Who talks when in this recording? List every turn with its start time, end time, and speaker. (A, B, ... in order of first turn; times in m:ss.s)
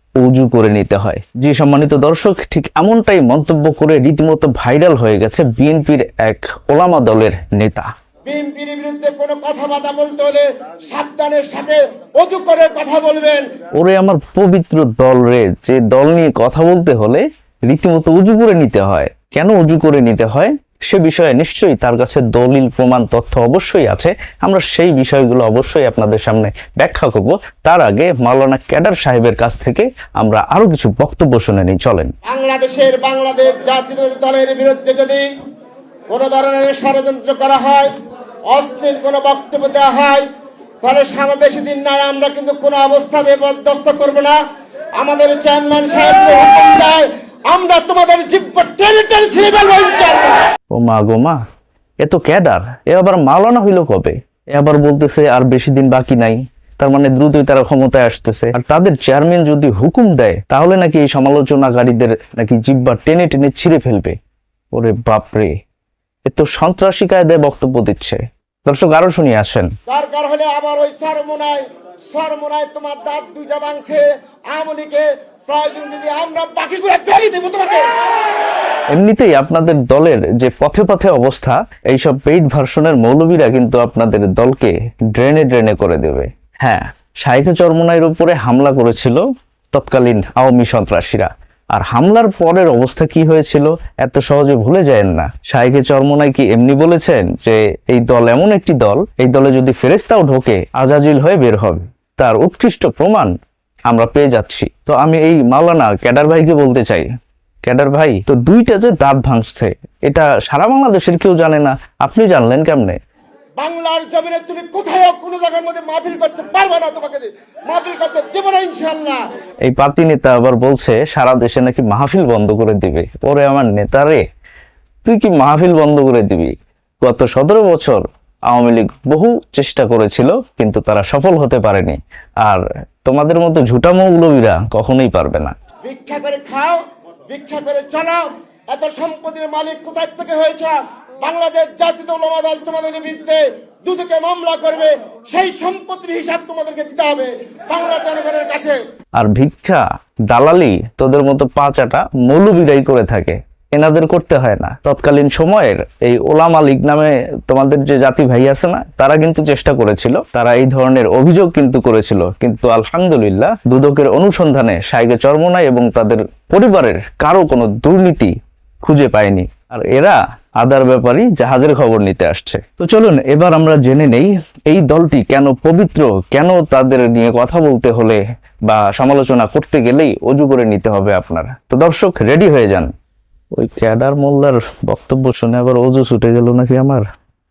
0:00.2-0:07.9 A
0:08.2-0:13.4 B
0:13.8-0:32.1 A
0:32.3-0:35.2 B
0:36.1-0:37.9 B
0:38.5-0:40.2 B
0:40.8-0:44.4 B
0:45.0-0:50.4 B
0:50.7-0:51.4 A
0:52.0-1:04.1 A
1:04.7-1:05.5 A
1:06.2-1:09.7 A
1:09.9-1:17.9 B
1:18.9-1:43.3 A
1:43.9-1:47.1 A
1:47.6-1:53.0 A
1:53.6-1:59.2 B
1:59.6-2:04.2 A
2:05.0-2:15.5 A
2:15.8-2:28.8 B
2:29.2-3:02.9 A
3:03.5-3:07.0 A